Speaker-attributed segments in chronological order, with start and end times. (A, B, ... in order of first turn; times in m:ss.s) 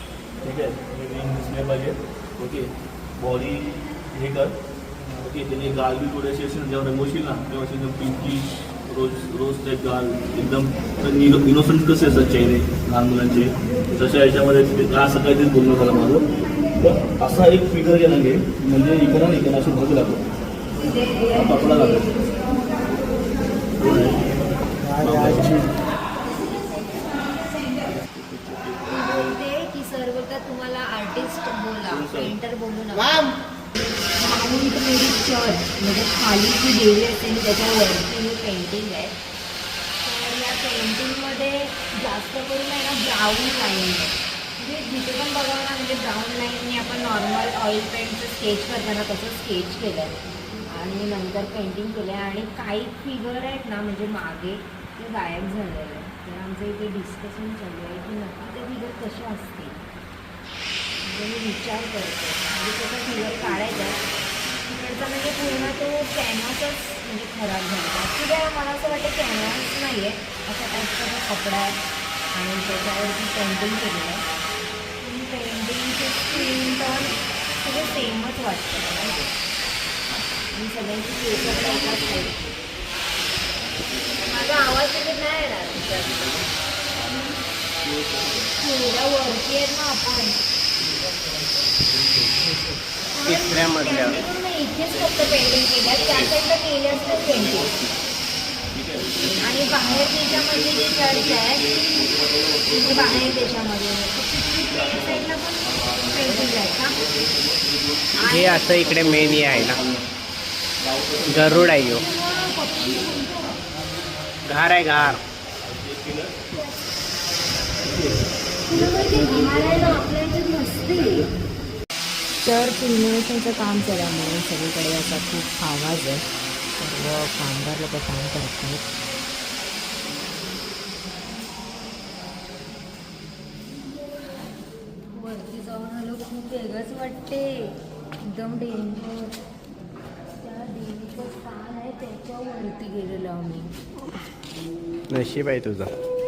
0:00.4-0:04.6 A
0:05.2-0:20.3 A
0:20.9-0:21.9 B
0:21.2-0:22.2 A
0:23.8-0:24.2 A
0:25.0-0:25.7 A
0:27.9-0:29.4 A
0:29.0-0:33.4 B
0:31.9-0:32.3 A
0:34.0-0:39.2 B
0:40.0-0:59.8 B
1:01.0-1:04.0 B
1:04.6-1:11.8 B
1:12.3-1:14.2 B
1:15.0-1:19.3 B
1:20.5-1:22.4 B
1:23.9-1:24.7 A
1:24.2-1:26.2 B
1:26.0-1:26.5 A
1:27.8-1:28.5 A
1:28.6-1:30.4 B
1:33.2-1:37.7 B
1:33.2-1:34.2 C
1:33.8-1:34.3 A
1:34.8-1:36.4 A
1:36.9-1:38.0 A
1:38.7-1:43.7 A
1:39.4-1:41.9 B
1:42.6-1:47.0 B
1:44.6-1:50.1 A
1:48.2-1:48.6 B
1:48.2-1:49.8 C
1:50.8-1:52.0 A
1:51.3-1:52.0 C
1:51.9-1:53.6 B
1:54.4-1:55.2 C
1:54.9-1:56.5 A
1:57.8-2:00.0 A
1:58.7-2:01.3 B
2:01.0-2:01.3 A
2:02.4-2:06.2 B
2:06.8-2:08.8 B
2:15.1-2:19.4 B
2:20.4-2:23.7 B
2:25.1-2:25.9 C